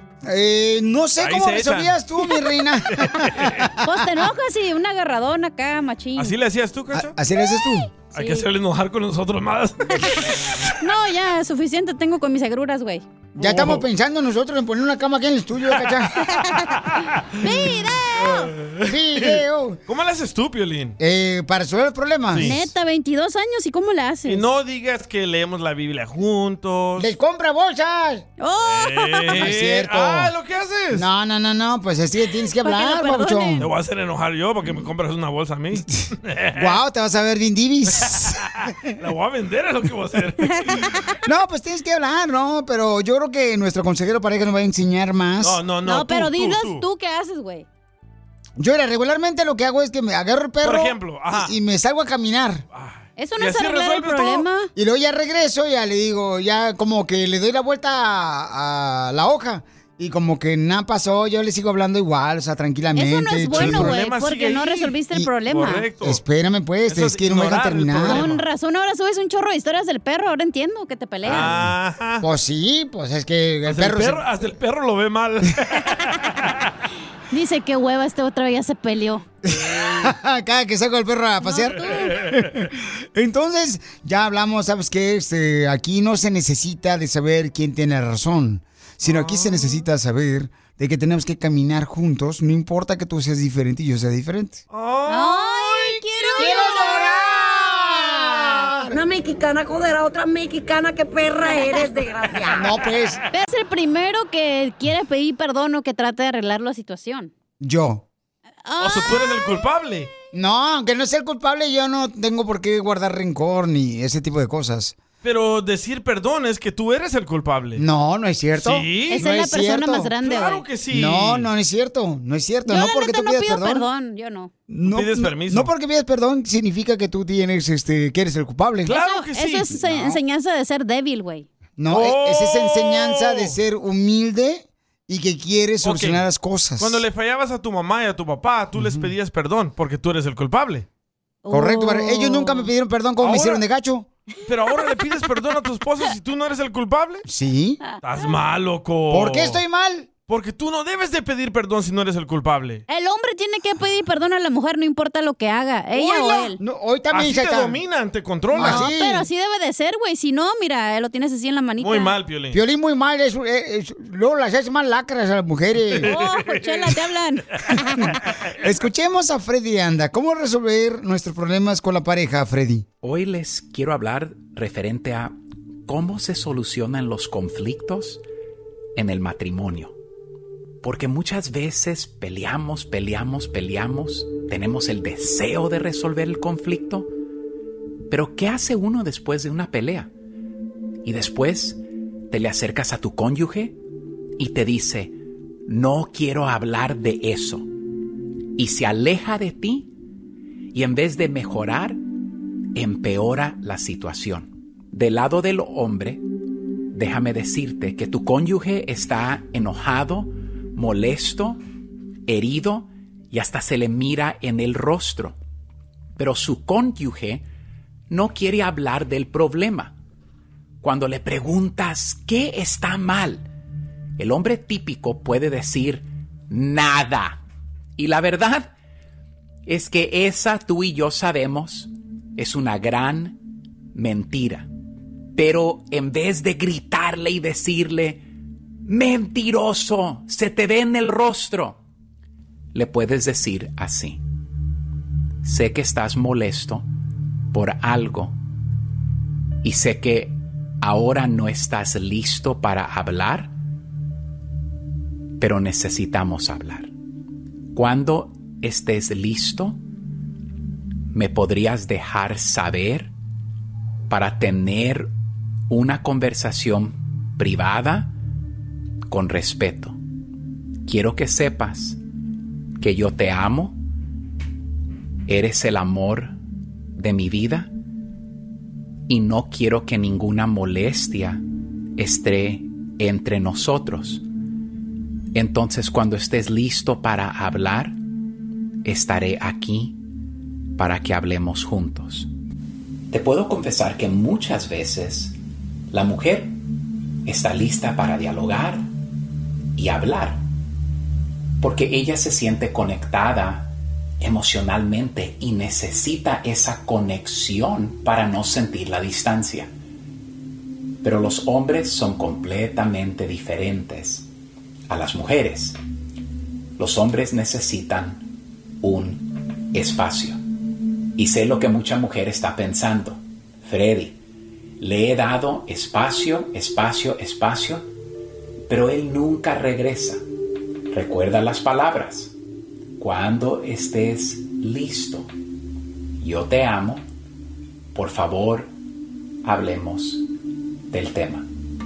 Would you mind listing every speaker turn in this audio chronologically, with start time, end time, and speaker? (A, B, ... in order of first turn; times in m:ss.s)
0:00.2-0:03.9 A
0:01.2-0:02.0 B
0:02.9-0:03.6 B
0:03.8-0:06.3 C
0:06.2-0:07.1 B
0:06.9-0:07.9 A
0:08.1-0:10.7 B
0:08.1-0:08.4 C
0:10.8-0:13.0 C
0:13.3-0:16.2 A
0:13.4-0:13.8 B
0:17.2-0:21.0 B
0:17.4-0:18.5 C
0:18.8-0:19.8 A
0:21.0-0:22.5 A
0:22.3-0:22.7 B
0:22.4-0:24.4 C
0:24.2-0:27.1 B
0:27.0-0:28.2 A
0:28.4-0:29.4 C
0:28.6-0:31.1 B
0:29.3-0:30.3 A
0:30.9-0:33.7 A
0:32.6-0:33.6 C
0:33.6-0:36.8 B
0:36.5-0:38.4 A
0:38.0-0:40.9 B
0:41.2-0:45.6 A
0:45.4-0:46.8 B
0:45.8-0:47.6 C
0:48.6-0:52.6 A
0:50.6-0:51.5 B
0:52.7-0:54.5 B
0:53.2-0:54.7 C
0:54.7-1:04.0 A
1:02.9-1:05.8 C
1:03.5-1:06.2 B
1:06.0-1:08.2 A
1:06.9-1:08.4 B
1:08.1-1:11.5 C
1:11.2-1:12.2 B
1:11.3-1:14.2 A
1:13.6-1:16.5 B
1:17.3-1:19.2 C
1:19.4-1:34.6 A
1:19.5-1:20.1 B
1:21.4-1:22.2 C
1:22.0-1:22.6 B
1:29.0-1:29.8 B
1:34.7-1:36.6 B
1:35.1-1:37.3 C
1:36.4-1:39.0 A
1:38.9-1:42.7 D
1:42.5-1:43.2 A
1:43.3-1:47.3 C
1:47.6-1:48.0 A
1:48.6-1:49.4 C
1:48.8-1:50.1 B
1:50.3-1:55.0 A
1:55.2-1:57.8 B
1:57.8-2:00.1 A
1:58.6-1:59.3 B
1:59.1-2:00.6 C
2:00.2-2:01.5 B
2:00.9-2:03.8 A
2:02.6-2:04.5 C
2:04.7-2:08.9 A
2:04.8-2:05.7 B
2:08.8-2:10.2 B
2:08.8-2:11.5 C
2:11.8-2:17.0 A
2:11.9-2:13.6 B
2:15.8-2:16.2 B
2:16.8-2:20.8 B
2:18.8-2:19.1 A
2:21.4-2:22.7 C
2:21.5-2:24.1 A
2:23.2-2:23.6 B
2:24.4-2:27.2 B
2:27.2-2:27.8 A
2:28.0-2:29.6 B
2:29.1-2:30.1 A
2:30.3-2:32.8 B
2:32.9-2:36.6 C
2:36.0-2:36.5 B
2:36.6-2:37.8 A
2:37.1-2:38.9 B
2:38.5-2:39.3 A
2:38.6-2:42.1 C
2:41.8-2:42.6 B
2:42.5-2:46.1 A
2:46.0-2:47.8 C
2:46.0-2:46.9 B
2:48.6-2:52.8 A
2:53.0-2:58.2 E
2:59.0-2:59.9 E
3:00.8-3:07.1 E
3:08.1-3:10.1 E
3:11.0-3:13.8 E
3:14.4-3:17.7 E
3:18.6-3:19.9 E
3:20.7-3:22.0 E
3:22.7-3:26.2 E
3:26.9-3:31.6 E
3:32.3-3:35.4 E
3:36.2-3:37.4 E
3:38.1-3:39.9 E
3:40.8-3:43.5 E
3:44.2-3:47.4 E
3:48.0-3:48.7 E
3:49.6-3:53.4 E
3:53.9-3:54.7 E
3:55.3-3:58.2 E
3:58.8-4:01.8 E
4:02.7-4:04.2 E
4:05.4-4:06.9 E
4:07.5-4:08.4 E
4:09.6-4:13.5 E
4:15.4-4:16.9 E
4:17.7-4:19.8 E
4:21.1-4:23.1 E
4:24.1-4:25.1 E
4:25.7-4:28.1 E
4:29.1-4:30.0 E
4:30.8-4:32.0 E
4:32.8-4:33.8 E
4:35.3-4:36.4 E
4:37.0-4:37.7 E
4:39.1-4:41.4 E
4:42.0-4:44.2 E
4:45.3-4:48.0 E
4:48.8-4:50.0 E
4:50.8-4:52.3 E
4:53.1-4:55.4 E
4:55.9-4:56.6 E
4:57.2-4:58.9 E
4:59.8-5:00.4 E
5:01.6-5:09.7 E
5:11.0-5:14.3 E
5:14.9-5:15.8 E
5:16.8-5:18.3 E
5:18.8-5:20.4 E
5:21.2-5:24.2 E
5:24.8-5:27.9 E
5:28.7-5:30.2 E
5:30.9-5:32.3 E
5:33.0-5:35.3 E
5:36.2-5:37.0 E
5:37.9-5:38.7 E
5:39.4-5:40.2 E
5:40.9-5:41.5 E